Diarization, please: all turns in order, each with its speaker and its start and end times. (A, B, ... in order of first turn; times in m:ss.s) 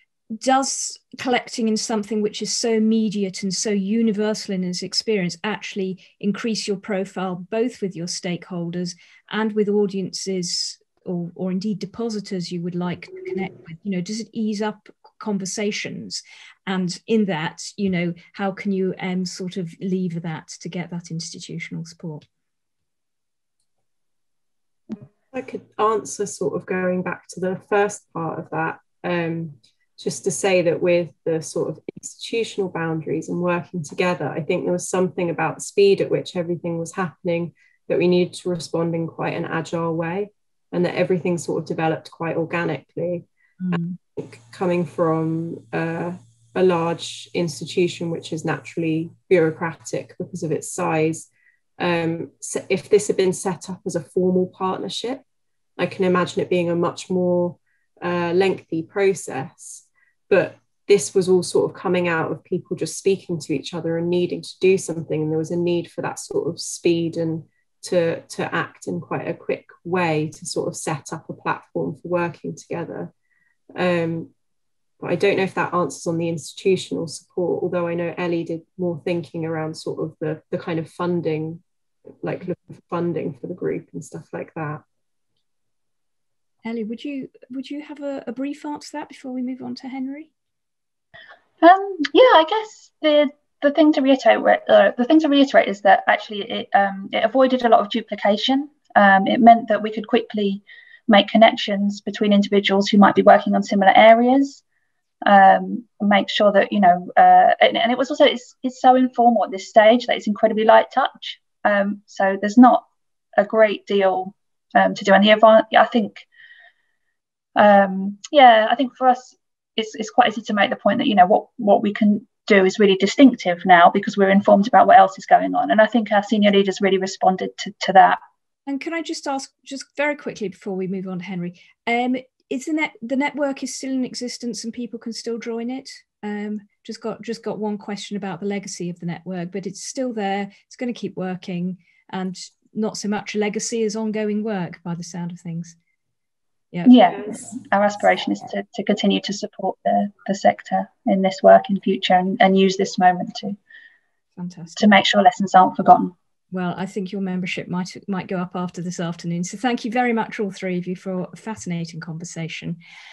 0:00.3-0:22.2 A
0:25.3-0:43.2 B
0:43.6-0:44.0 A
0:44.1-0:55.2 B
0:55.8-1:13.1 B
1:13.7-1:14.3 B
1:15.0-1:21.6 B
1:22.2-1:24.8 B
1:26.6-1:30.3 A
1:31.6-1:44.6 C
1:45.2-1:56.2 C
1:57.5-2:08.2 C
2:08.7-2:25.8 A
2:26.7-2:27.5 A
2:26.8-2:33.6 C
2:34.4-2:34.8 A
2:34.8-2:36.1 C
2:36.5-2:42.8 A